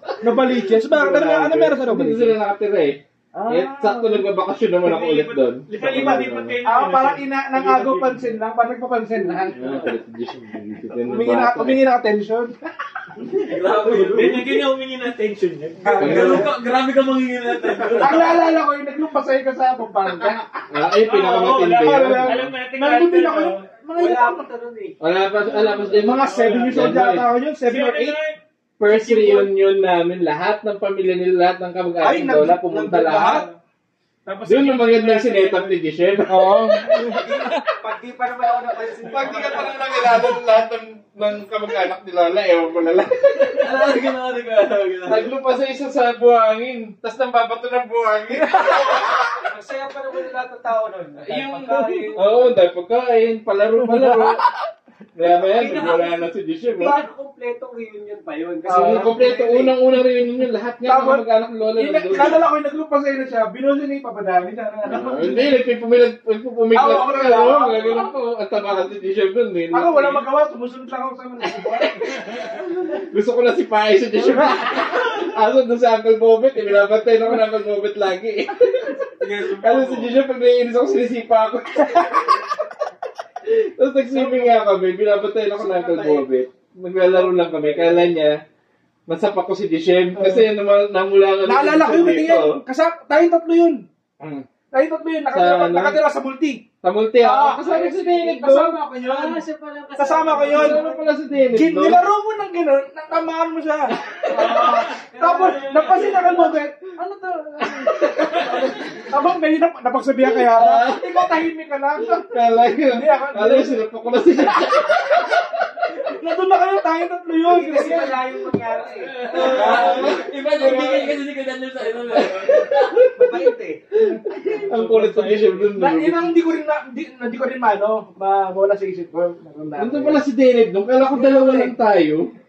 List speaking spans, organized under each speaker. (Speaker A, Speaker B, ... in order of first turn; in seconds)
Speaker A: 0.2-2.4, 3.3-4.3, 5.8-9.7, 11.0-12.5, 17.9-20.6, 21.7-24.5, 25.9-28.2, 32.0-33.5, 56.8-57.0, 58.6-59.7, 60.8-61.2, 61.8-65.5, 66.7-68.1, 69.7-72.1, 84.1-84.6, 85.5-86.3, 87.0-88.1, 90.1-90.5, 91.4-93.8, 94.7-96.6, 97.2-99.4, 100.0-100.8, 101.5-112.3, 112.9-113.8, 116.0-118.2, 119.3-120.6, 125.8-130.2
Speaker B: 0.8-1.6, 15.8-16.5, 23.9-25.0, 25.5-25.8, 37.1-39.8, 48.6-52.5, 55.2-59.7, 99.0-101.1, 104.5-106.6, 117.5-120.2, 123.1-123.8, 131.1-131.7
Speaker C: 1.5-6.6, 9.6-11.8, 16.0-16.5, 20.7-22.5, 25.0-27.3, 28.8-33.5, 34.5-37.2, 39.0-43.7, 45.0-49.3, 51.2-54.5, 55.1-57.0, 58.7-62.5, 64.9-70.2, 71.8-82.5, 83.4-88.4, 89.1-92.6, 94.2-94.5, 95.3-96.0, 96.8-98.8, 100.5-102.0, 110.3-111.3, 112.3-115.3, 119.2-121.2, 122.1-123.0, 124.1-126.3, 129.8-132.3
Speaker D: 4.8-8.3, 9.5-9.9, 13.6-16.3, 21.0-23.7, 27.6-29.6, 34.2-37.7, 104.2-106.5, 107.9-108.8, 118.9-119.5, 124.3-125.7
Speaker E: 13.3-14.6, 15.9-18.4, 43.5-45.3, 79.2-80.2, 119.4-122.9